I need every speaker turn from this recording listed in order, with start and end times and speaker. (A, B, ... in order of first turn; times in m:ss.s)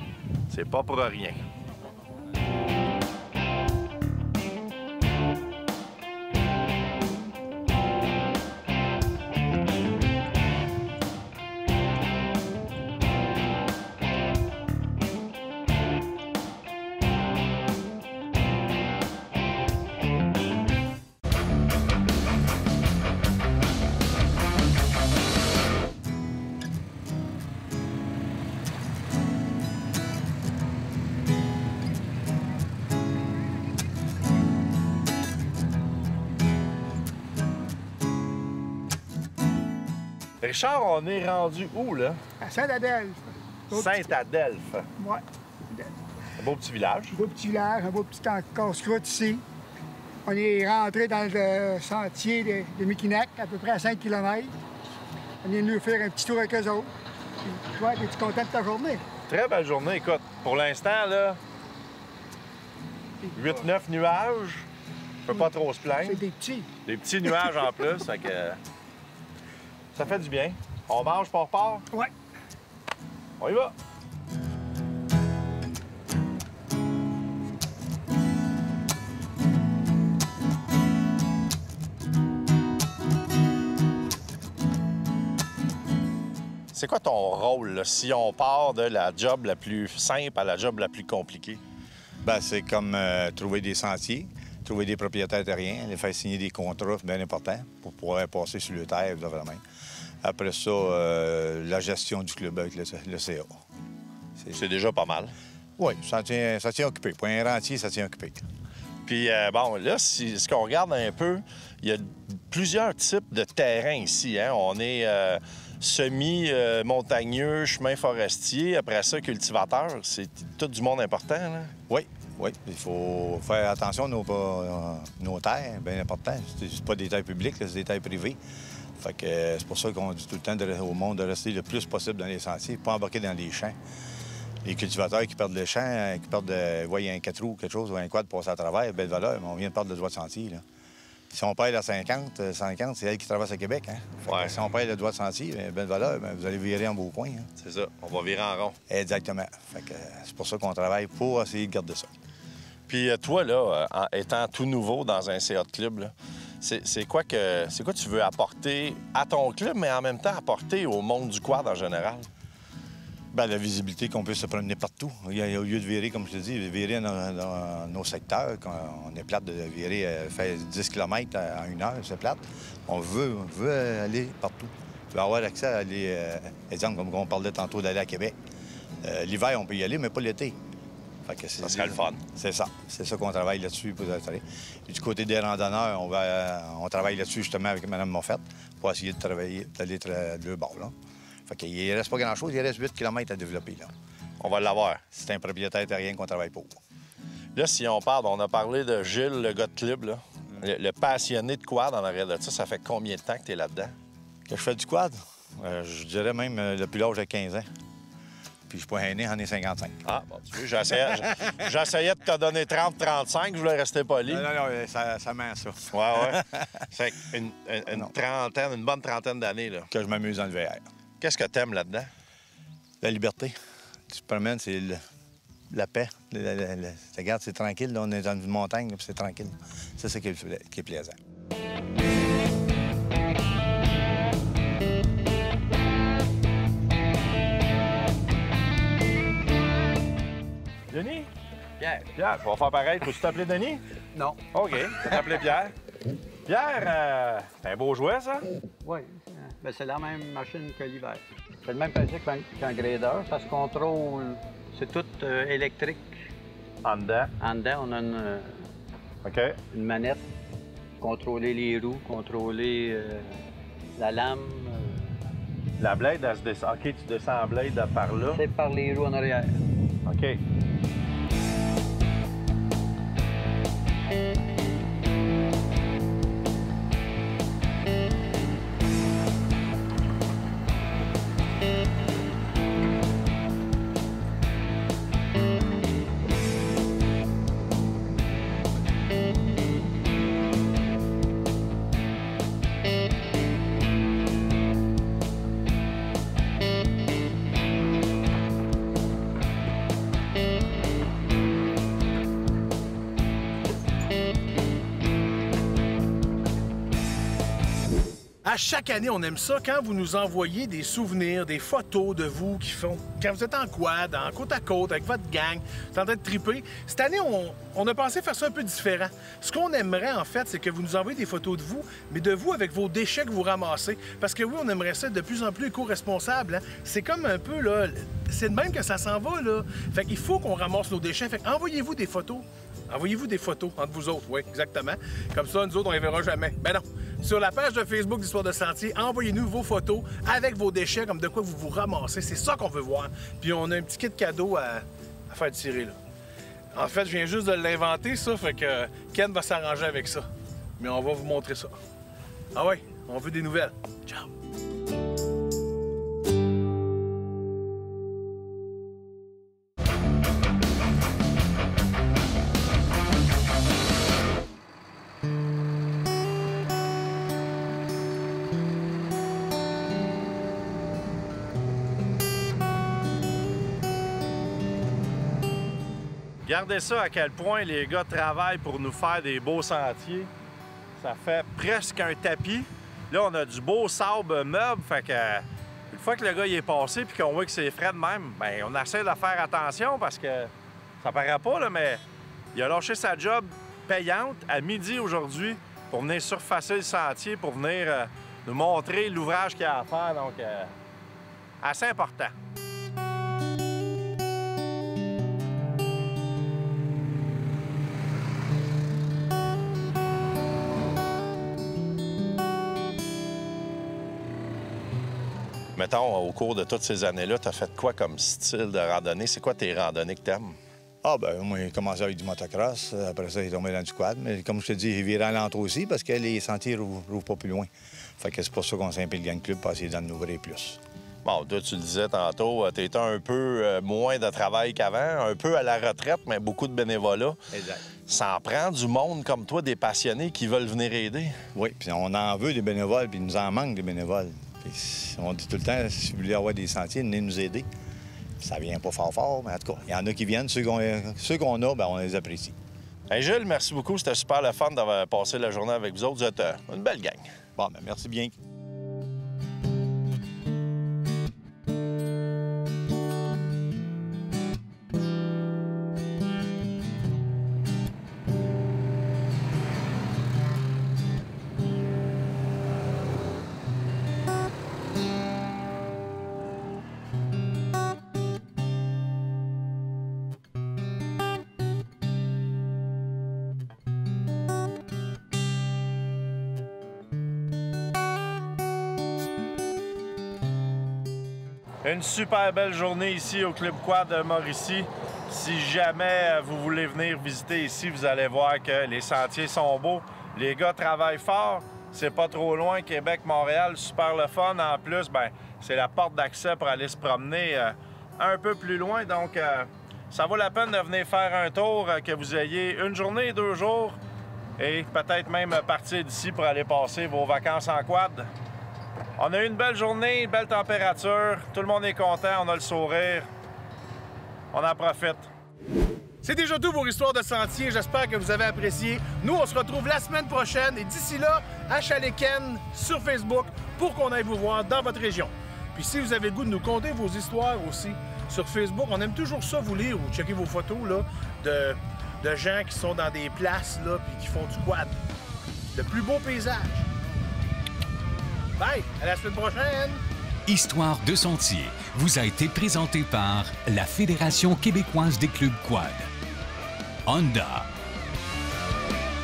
0:00.5-0:01.4 A
0:40.4-0:42.2 A
0:42.4-0:44.1 B
0:43.7-0:44.9 A
0:45.0-0:45.9 B
0:46.4-0:47.2 A
0:47.1-0:49.4 B
0:50.2-0:54.5 B
0:55.4-0:56.9 B
0:57.4-0:59.0 B
0:59.3-1:01.4 A
1:03.3-1:04.7 A
1:05.2-1:06.2 A
1:06.0-1:06.7 B
1:06.8-1:08.6 A
1:09.9-1:11.8 A
1:13.4-1:13.7 A
1:26.7-1:31.6 A
1:32.2-1:39.6 C
1:40.2-1:43.6 C
1:44.5-1:45.3 A
1:45.8-1:48.4 C
1:49.0-2:01.7 A
2:01.9-2:08.4 C
2:09.0-2:13.8 C
2:14.6-2:20.6 C
2:21.3-2:27.5 C
2:24.2-2:24.6 A
2:27.6-2:28.8 A
2:28.9-2:32.1 C
2:32.9-2:42.3 A
2:43.3-2:58.4 C
2:59.0-3:00.6 C
3:01.2-3:10.9 C
3:01.6-3:02.2 A
3:11.5-3:13.9 C
3:14.4-3:15.0 A
3:15.1-3:16.8 C
3:17.5-3:23.9 A
3:24.5-3:27.7 C
3:28.7-3:30.0 C
3:30.0-3:34.5 A
3:31.1-3:31.4 C
3:34.3-3:36.8 C
3:35.9-3:39.9 A
3:39.9-3:40.8 C
3:41.2-3:42.1 A
3:43.0-3:43.6 C
3:44.1-3:45.0 C
3:45.7-3:51.2 C
4:00.9-4:01.3 A
4:01.8-4:02.0 D
4:02.1-4:03.8 A
4:04.1-4:04.4 D
4:04.5-4:05.7 A
4:06.4-4:08.4 A
4:08.8-4:16.2 D
4:16.8-4:17.3 A
4:17.4-4:18.7 D
4:19.2-4:19.6 A
4:19.7-4:20.2 D
4:21.0-4:23.4 D
4:24.0-4:25.1 D
4:25.8-4:28.4 A
4:28.3-4:29.6 D
4:30.0-4:30.4 A
5:08.4-5:46.0 E
5:46.7-5:50.2 E
5:50.8-5:51.7 E
5:52.5-5:54.3 E
6:16.4-6:20.3 A
6:21.0-6:32.0 A
6:32.5-6:40.7 A
6:41.6-6:42.3 A
6:55.8-7:00.6 A
7:01.0-7:10.8 C
7:11.2-7:17.4 A
7:17.5-7:17.8 C
7:18.0-7:21.4 A
7:21.5-7:27.7 C
7:28.4-7:32.6 C
7:33.1-7:37.3 A
7:37.6-7:38.3 C
8:11.8-8:34.0 A
8:34.6-8:38.3 A
8:39.2-8:43.3 A
8:44.5-8:45.3 A
8:46.2-9:05.0 E
9:05.7-9:06.9 E
9:08.6-9:10.0 E
9:10.4-9:16.1 F
9:17.0-9:17.7 F